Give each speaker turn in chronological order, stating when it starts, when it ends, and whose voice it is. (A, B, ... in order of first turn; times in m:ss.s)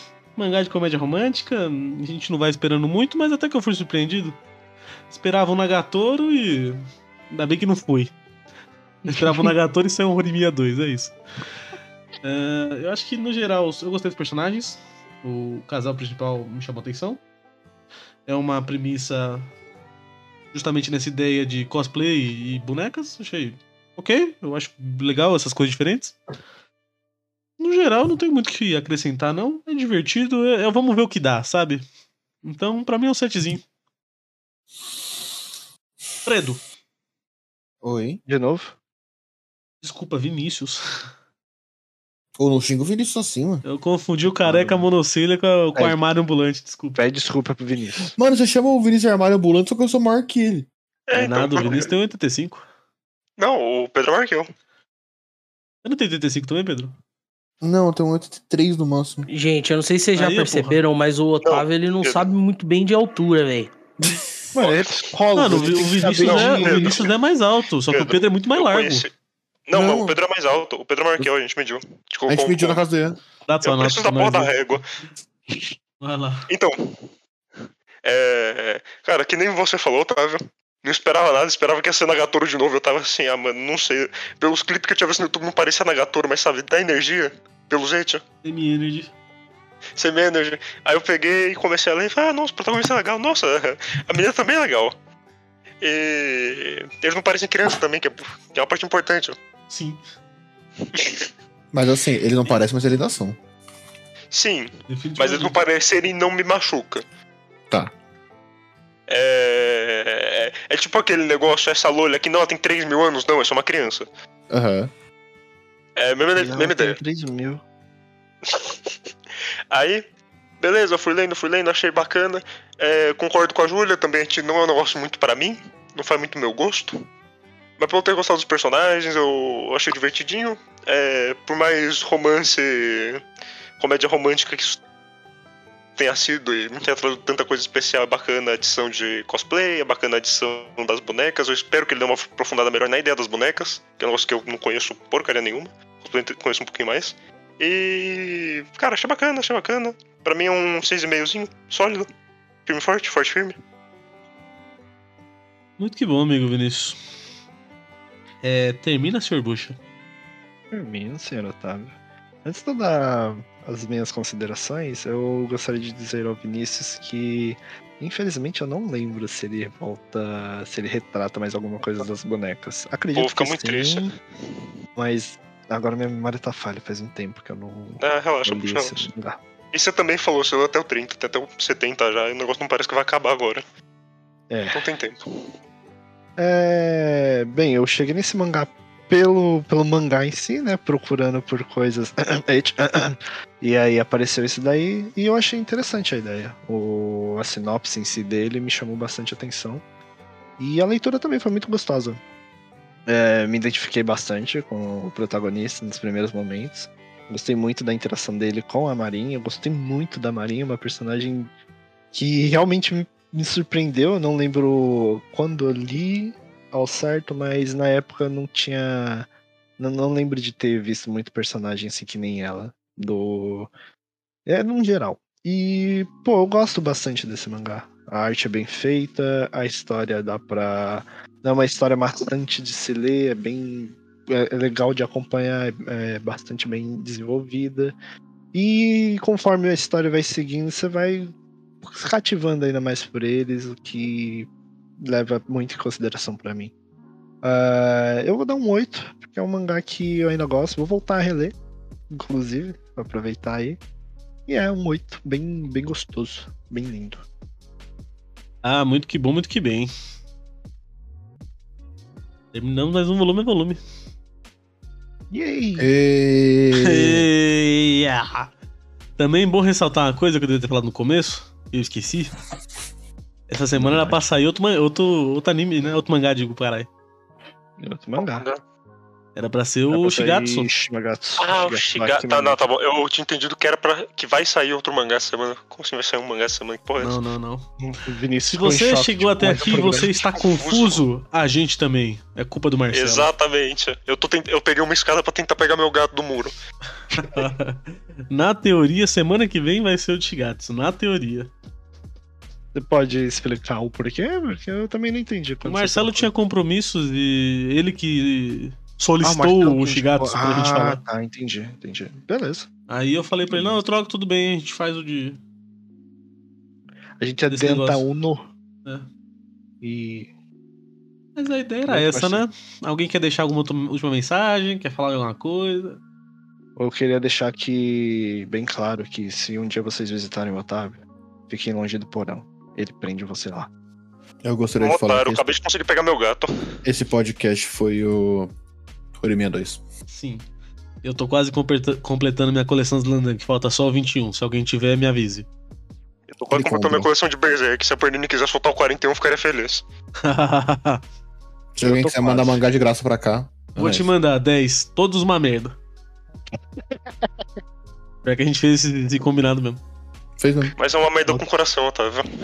0:00.4-0:04.4 A
0:05.1-0:06.8 A
0:07.3-0:08.1 A
0:09.0-0:09.5 B
0:09.1-0:11.1 A
0:12.2-0:17.2 A
0:18.3-0:19.5 A
0:20.5-0:26.2 A
0:27.6-0:31.8 A
0:32.4-0:33.6 A
0:36.2-0:36.6 A
0:37.8-0:38.2 C
0:38.2-0:38.7 B
0:39.8-0:40.8 A
0:42.4-0:43.6 C
0:43.6-0:47.0 A
0:44.4-0:44.8 B
0:47.0-0:48.1 B
0:48.2-0:50.7 C
0:51.1-0:51.9 D
0:51.1-0:52.6 A
0:53.4-0:54.5 D
0:55.8-0:56.9 A
0:57.6-0:59.3 C
0:59.3-1:03.7 E
1:00.2-1:00.8 A
1:01.4-1:02.3 D
1:04.5-1:07.1 B
1:04.6-1:05.1 D
1:05.3-1:09.1 A
1:06.2-1:07.1 D
1:07.9-1:09.1 D
1:09.7-1:12.8 D
1:09.7-1:10.2 C
1:12.3-1:13.2 C
1:13.5-1:14.5 A
1:13.6-1:14.8 D
1:16.0-1:16.5 A
1:16.5-1:17.0 D
1:18.0-1:28.2 D
1:28.4-1:29.1 A
1:30.0-1:34.9 D
1:35.8-1:39.4 D
1:39.7-1:40.0 A
1:40.9-1:41.3 D
1:41.7-1:43.4 C
1:44.3-1:47.0 D
1:44.9-1:45.6 A
1:49.1-1:54.1 D
1:54.5-1:54.9 C
1:56.0-1:57.0 D
1:56.4-1:57.6 B
1:58.4-1:58.9 D
1:59.7-2:00.0 D
2:00.6-2:07.0 D
2:07.8-2:13.2 D
2:13.8-2:14.8 D
2:16.0-2:32.1 D
2:32.6-2:33.6 D
2:35.8-2:37.0 A
2:38.4-2:39.8 A
2:40.7-2:54.1 B
2:53.1-2:54.1 D
2:55.0-2:59.4 B
2:58.0-2:59.1 D
2:59.7-3:03.6 D
3:04.5-3:04.8 B
3:04.7-3:05.2 D
3:06.4-3:19.8 B
3:20.6-3:22.2 B
3:23.0-3:31.5 B
3:32.1-3:39.3 B
3:39.8-3:43.7 B
3:44.4-3:58.0 B
3:58.5-4:01.3 B
4:01.8-4:06.7 B
4:07.4-4:11.5 B
4:12.1-4:13.8 B
4:14.5-4:17.2 B
4:18.6-4:19.9 A
4:22.5-4:23.8 A
4:25.3-4:25.9 B
4:25.8-4:27.3 C
4:26.7-4:28.5 A
4:29.2-4:32.3 A
4:33.5-4:36.9 A
4:33.8-4:34.2 B
4:37.8-4:38.4 B
4:38.2-4:38.6 D
4:39.4-4:40.7 A
4:39.9-4:42.6 B
4:41.4-4:47.2 D
4:47.0-4:47.6 A
4:47.8-4:50.3 B
4:48.5-4:53.3 A
4:50.3-4:51.0 D
4:52.9-4:56.6 D
4:57.1-5:01.5 A
5:02.7-5:06.3 B
5:05.6-5:11.0 A
5:09.2-5:12.7 B
5:12.9-5:15.4 A
5:13.5-5:13.8 B
5:17.2-5:18.5 B
5:17.5-5:18.0 A
5:19.8-5:20.3 B
5:21.4-5:26.0 A
5:21.8-5:22.4 B
5:26.8-5:33.7 B
5:34.4-5:35.5 C
5:34.8-5:36.5 D
5:36.8-5:38.5 C
5:39.1-5:39.8 C
5:40.1-5:40.4 A
5:41.0-5:45.5 A
5:46.3-5:49.8 D
5:46.5-5:47.1 C
5:50.2-5:51.0 A
5:51.7-5:54.1 C
5:51.8-5:52.6 B
5:53.8-5:55.8 A
5:58.2-5:59.8 A
6:00.4-6:00.7 C
6:00.8-6:02.2 D